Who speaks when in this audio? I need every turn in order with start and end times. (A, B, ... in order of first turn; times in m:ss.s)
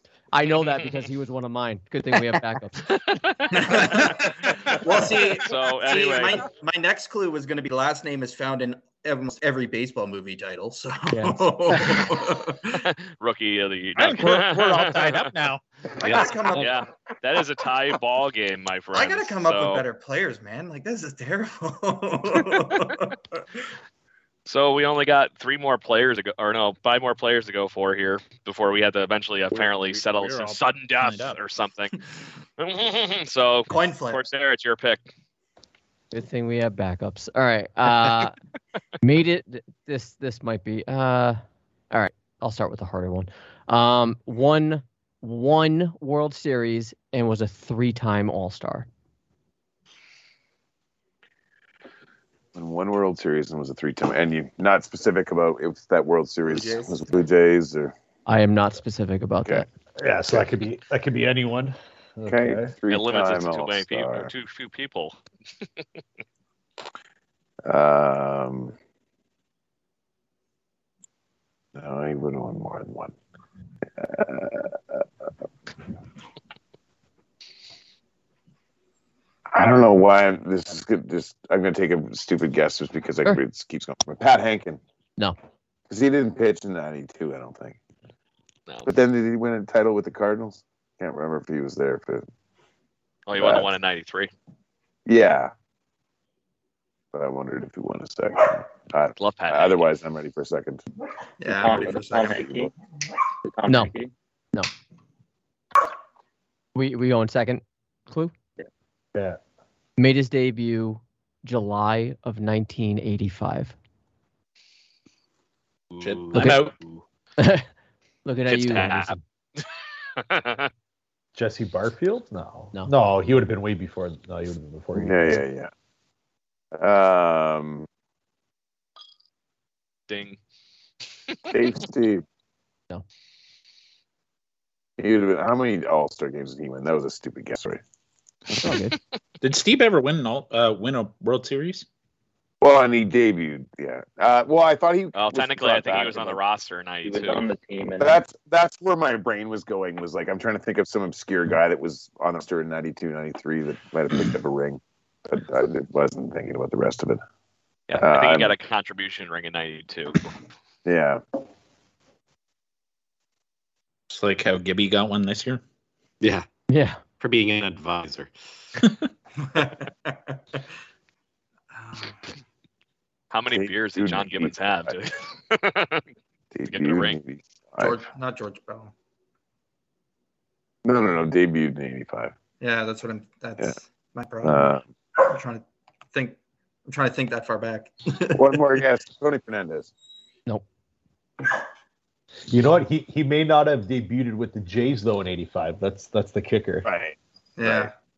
0:00.3-0:03.0 A
0:00.5-0:00.9 B
0:03.2-0:06.4 B
0:03.5-0:12.8 C
0:11.1-0:11.8 A
0:12.7-0:15.3 B
0:14.0-0:15.6 D
0:16.0-0:16.8 C
0:16.0-0:16.6 E
0:16.5-0:19.8 B
0:18.9-0:23.4 C
0:24.4-0:32.0 B
0:29.5-0:31.4 D
0:32.6-0:35.1 B
0:33.7-0:34.3 C
0:36.1-0:38.3 A
0:39.0-0:41.4 A
0:41.9-0:48.9 A
0:52.5-0:57.9 F
0:56.5-0:57.1 C
0:58.2-0:59.7 A
1:00.0-1:02.7 G
1:02.3-1:04.3 F
1:02.9-1:05.2 B
1:07.6-1:08.7 F
1:11.7-1:13.1 F
1:14.0-1:15.0 F
1:19.5-1:24.8 F
1:25.9-1:27.8 F
1:28.8-1:32.2 F
1:33.3-1:34.3 B
1:33.4-1:33.7 F
1:35.0-1:35.5 F
1:37.1-1:40.8 F
1:39.2-1:39.8 B
1:41.4-1:42.5 C
1:41.5-1:42.7 H
1:42.2-1:42.7 F
1:43.4-1:44.1 H
1:46.7-1:48.3 A
1:50.0-1:53.7 A
1:56.0-1:56.8 B
1:56.0-1:56.8 D
1:56.3-1:56.6 A
1:57.4-1:57.7 A
1:58.2-1:59.2 A
1:58.5-1:59.6 B
2:00.2-2:00.7 B
2:01.3-2:05.4 G
2:05.0-2:05.7 F
2:06.8-2:07.9 F
2:10.1-2:10.4 B
2:11.5-2:12.2 F
2:15.0-2:17.8 F
2:18.6-2:19.0 A
2:19.4-2:21.8 D
2:22.6-2:26.4 F
2:25.1-2:27.4 B
2:27.0-2:28.2 H
2:28.0-2:37.2 F
2:37.9-2:40.3 B
2:38.0-2:38.5 F
2:40.8-2:41.2 F
2:44.1-2:45.6 D
2:46.2-2:46.5 E
2:46.7-2:47.0 A
2:47.1-2:48.3 E
2:48.8-2:49.1 D
2:49.4-2:50.6 C
2:51.7-2:52.2 C
2:53.3-2:56.0 B
2:53.5-2:55.0 F
2:56.5-2:58.0 F
2:56.7-2:57.2 B
2:57.8-2:58.9 C
3:00.8-3:02.3 F
3:02.6-3:08.6 C
3:04.4-3:04.9 F
3:08.3-3:09.9 F
3:12.5-3:16.9 G
3:16.8-3:17.9 F
3:17.6-3:17.9 C